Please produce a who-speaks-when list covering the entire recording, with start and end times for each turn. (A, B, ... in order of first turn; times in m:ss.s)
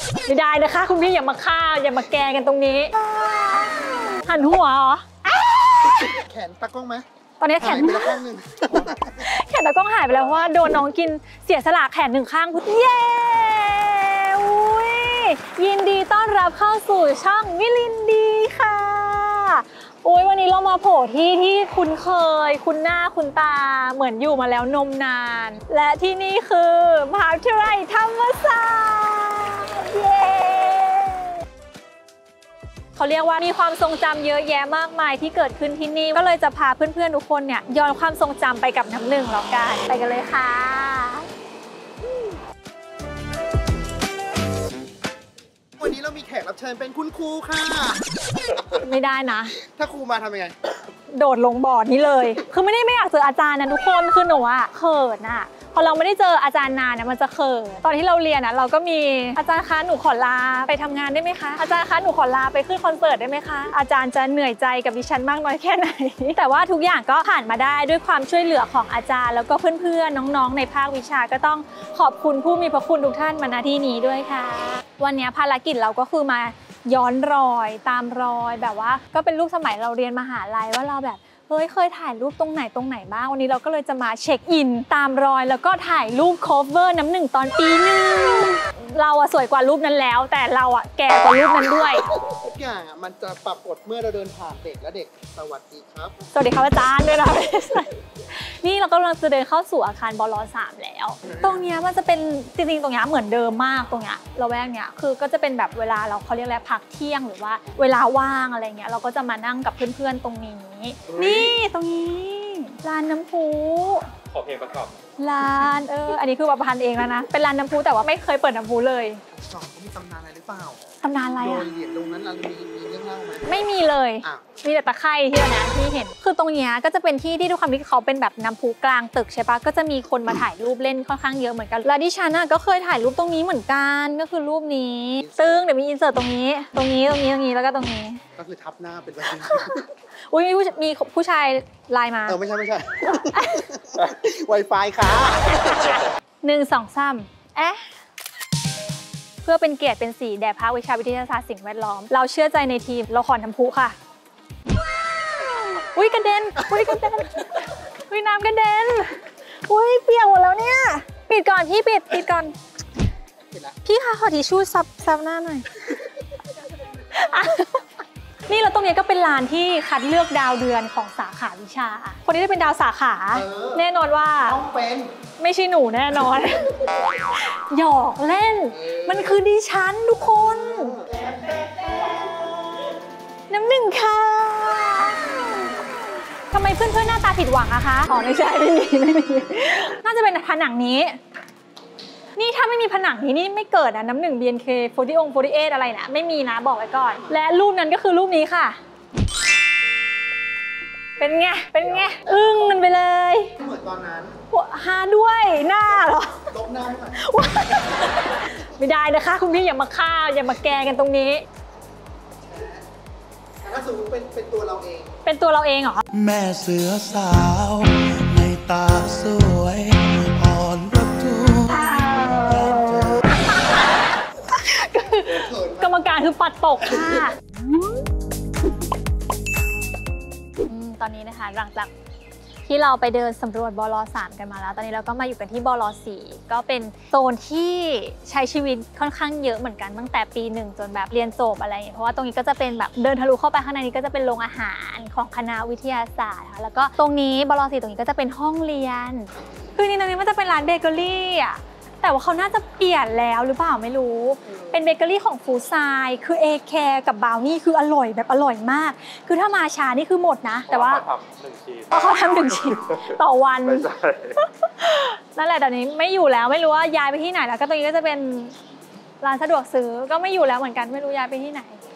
0:00.3-0:06.0 A
0:04.2-0:04.6 B
0:05.9-0:07.1 B
0:07.4-0:08.2 A
0:07.6-0:09.2 B
0:09.1-0:31.4 A
0:33.0-0:41.3 A
0:45.8-0:48.0 B
0:48.6-0:49.6 A
0:49.6-0:50.6 B
0:51.1-1:32.2 A
1:32.2-1:36.2 B
1:36.3-1:54.1 A
1:51.1-1:51.5 B
1:54.3-1:54.9 C
1:55.2-1:59.2 A
1:59.3-2:00.8 B
2:01.0-2:01.7 A
2:01.4-2:03.5 B
2:03.4-2:18.2 A
2:15.2-2:15.6 B
2:18.4-2:19.9 B
2:19.4-2:22.4 A
2:22.3-2:26.0 B
2:23.3-2:23.7 A
2:26.4-2:27.9 A
2:29.4-2:34.0 A
2:35.1-2:42.5 A
2:43.5-2:43.8 B
2:43.8-2:45.9 A
2:47.0-2:47.8 A
2:48.5-2:54.6 A
2:53.3-2:53.8 B
2:54.4-2:55.1 B
2:55.4-3:01.1 A
2:58.8-2:59.3 B
3:00.3-3:02.9 B
3:03.5-3:11.2 A
3:12.4-3:18.8 A
3:21.2-3:23.6 A
3:23.6-3:24.4 B
3:24.5-3:26.5 A
3:26.5-3:27.2 B
3:27.1-3:31.4 A
3:32.4-3:32.9 B
3:33.6-3:35.2 B
3:35.2-3:36.0 A
3:36.1-3:43.3 D
3:41.7-3:47.4 A
3:45.2-3:46.0 B
3:50.6-3:51.9 A
3:52.7-4:21.0 A
4:14.5-4:14.7 B
4:20.7-4:21.9 C
4:21.9-4:28.6 A
4:23.9-4:24.4 C
4:29.2-4:31.8 A